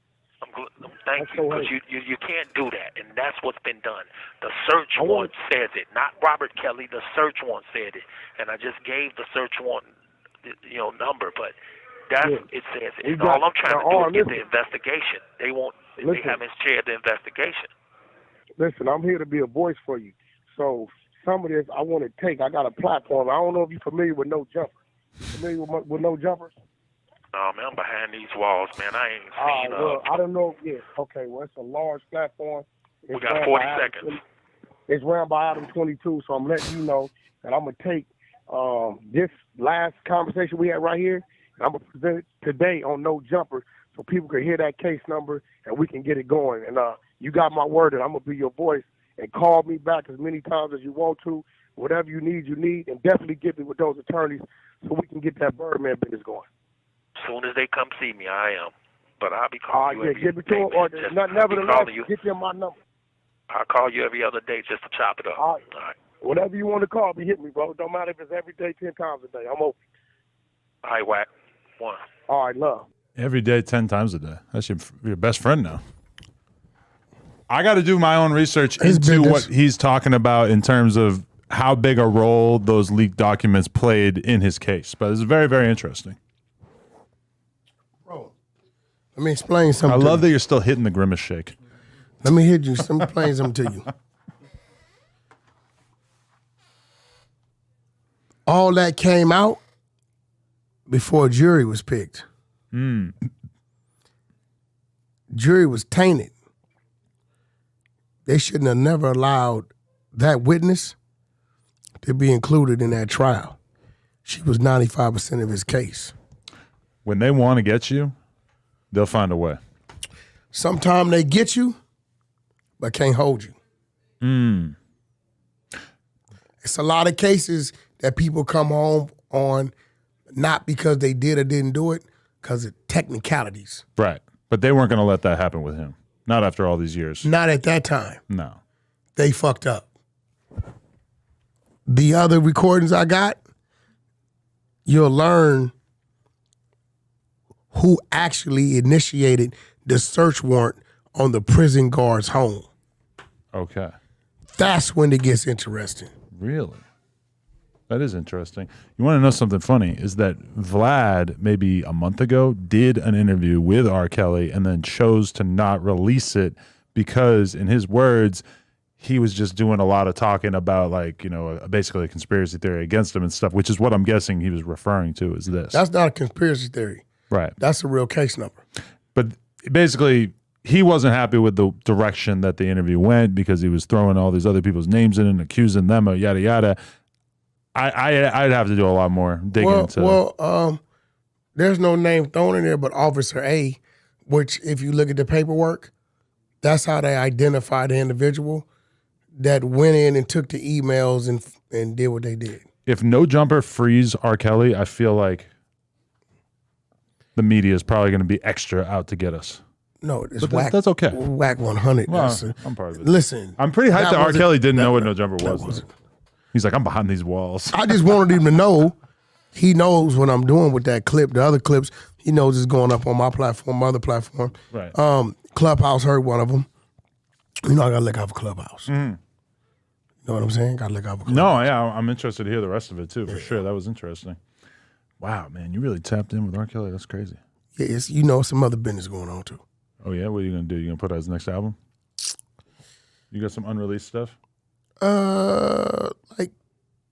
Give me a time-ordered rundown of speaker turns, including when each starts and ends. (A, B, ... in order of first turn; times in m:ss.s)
0:00.4-0:09.9 A
0:01.2-0:01.7 B
0:05.0-0:05.3 B
0:10.4-0:11.6 A
0:12.1-0:17.7 A
0:12.2-0:12.5 B
0:13.0-0:14.4 B
0:16.0-0:16.4 B
0:18.6-0:24.8 B
0:25.3-0:26.5 B
0:27.3-0:30.1 A
0:29.4-0:34.2 B
0:33.1-0:34.1 A
0:34.9-0:56.5 B
0:57.2-1:02.1 A
0:59.7-1:02.8 B
1:03.5-1:06.0 A
1:05.4-1:05.6 B
1:06.2-1:09.8 B
1:10.8-1:11.3 A
1:11.8-1:12.0 A
1:12.3-1:12.9 B
1:13.2-1:15.8 C
1:17.5-1:26.2 C
1:18.8-1:19.5 D
1:28.1-1:28.3 D
1:29.2-1:30.3 D
1:29.9-1:31.6 C
1:32.2-1:33.9 D
1:38.5-1:39.6 D
1:40.9-1:42.3 D
1:42.7-1:43.2 C
1:45.3-1:46.3 D
1:48.3-1:51.0 D
1:52.0-1:53.6 D
1:54.2-1:56.1 D
1:57.0-1:58.1 C
1:58.9-1:59.6 C
2:00.5-2:01.8 D
2:02.8-2:03.6 D
2:04.2-2:04.8 C
2:06.6-2:09.7 D
2:10.3-2:13.8 D
2:14.0-2:17.3 C
2:17.2-2:18.2 D
2:18.3-2:18.6 C
2:19.2-2:19.9 D
2:21.9-2:23.4 D
2:24.9-2:25.7 D
2:27.7-2:32.7 D
2:33.5-2:33.9 C
2:34.5-2:36.1 D
2:36.4-2:36.8 C
2:37.9-2:48.4 C
2:49.0-2:55.8 C
2:55.7-2:57.0 D
2:57.3-2:57.6 C
2:57.6-2:58.6 D
2:59.2-3:06.8 C
3:07.8-3:10.2 C
3:09.6-3:10.8 D
3:11.6-3:15.9 D
3:16.6-3:18.7 D
3:19.4-3:22.7 D
3:22.9-3:25.5 C
3:27.4-3:29.6 C
3:30.0-3:35.9 D
3:30.4-3:31.2 C
3:32.1-3:35.8 C
3:36.5-3:38.1 C
3:37.7-3:39.0 D
3:39.6-3:46.7 D
3:47.7-3:48.9 D
3:48.9-3:49.2 C
3:50.2-3:51.7 D
3:51.3-3:54.4 C
3:53.3-3:53.6 D
3:55.2-3:57.4 C
3:57.8-3:59.6 D
4:00.0-4:01.8 C
4:03.3-4:04.4 C
4:05.0-4:06.5 D